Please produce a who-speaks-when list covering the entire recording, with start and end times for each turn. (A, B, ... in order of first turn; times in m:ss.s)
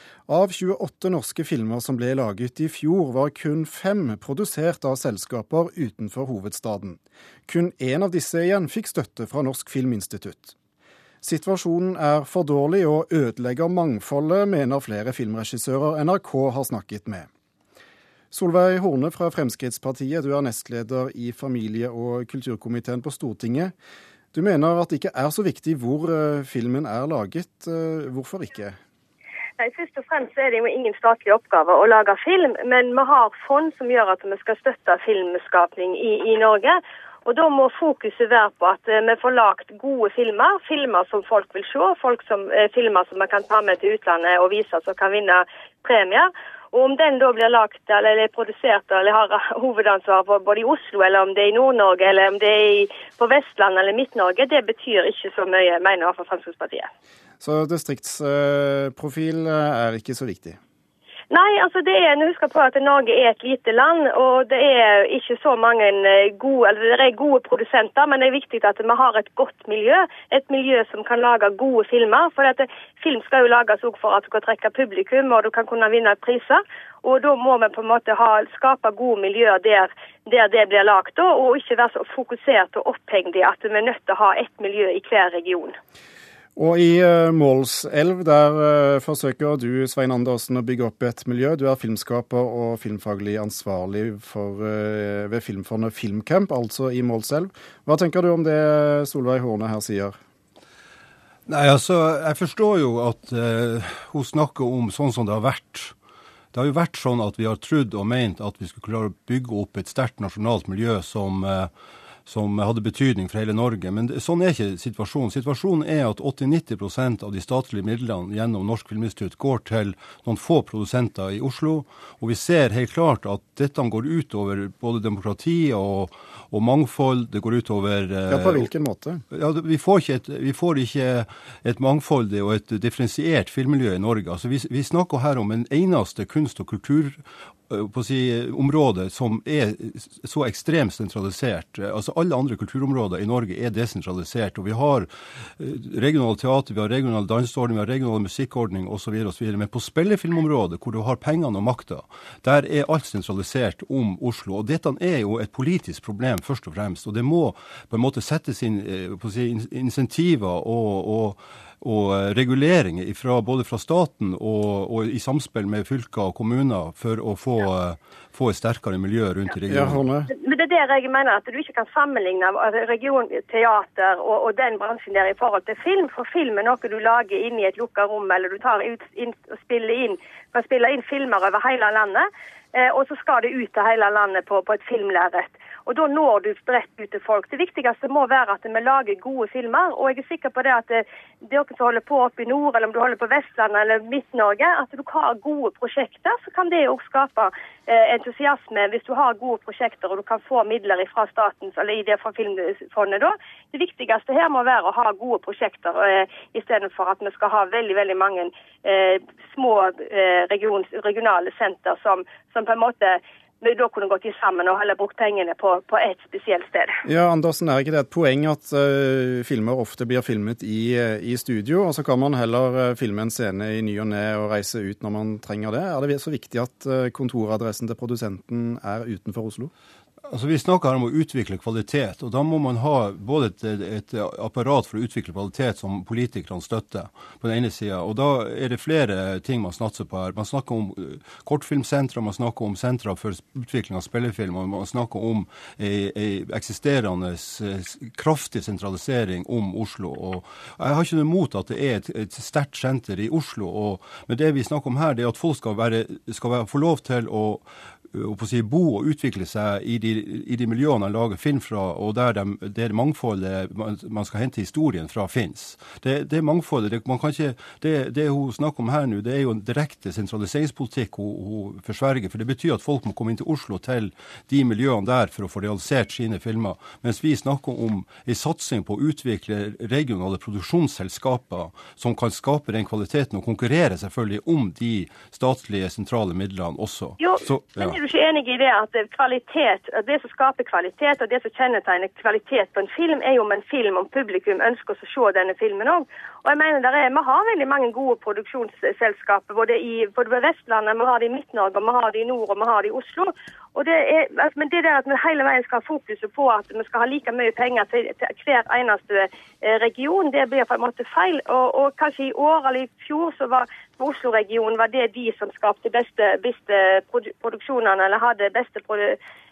0:00.3-0:10.6 A
0:11.2-0:17.3 A
0:18.3-0:23.7 A
0:24.3-0:28.8 A
0:29.6-0:56.9 B
0:57.4-1:00.6 A
1:01.3-1:25.8 B
1:26.6-1:40.2 A
1:41.5-1:45.9 C
1:46.5-1:51.7 C
1:52.2-2:08.7 C
2:08.3-2:09.2 A
2:09.3-2:50.0 C
2:49.7-2:50.3 A
2:50.3-3:37.0 B
3:37.0-3:49.7 A
3:50.3-4:48.0 C
4:47.2-5:19.2 B